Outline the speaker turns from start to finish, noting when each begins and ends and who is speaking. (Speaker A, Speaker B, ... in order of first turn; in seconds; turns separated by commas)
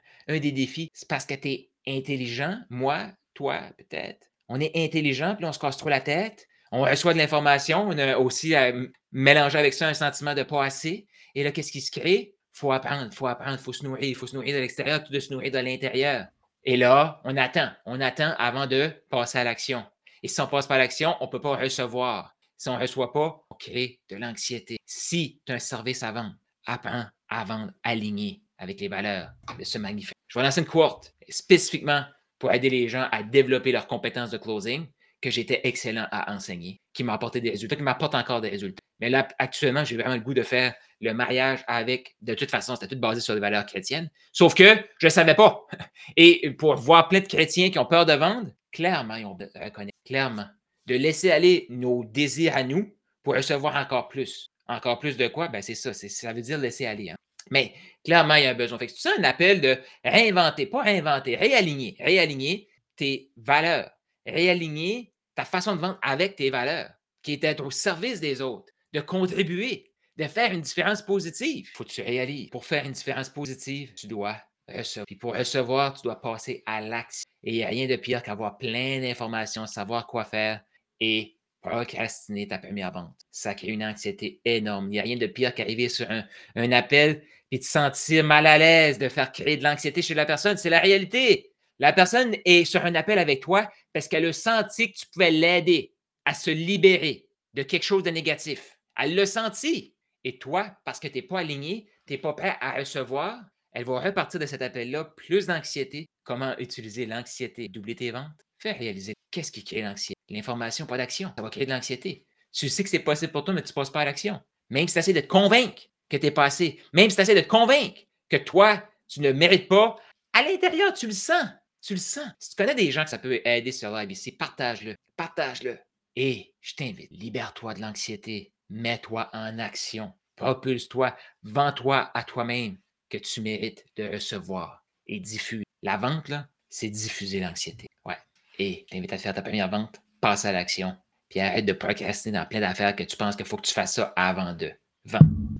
Speaker A: 0.3-145.3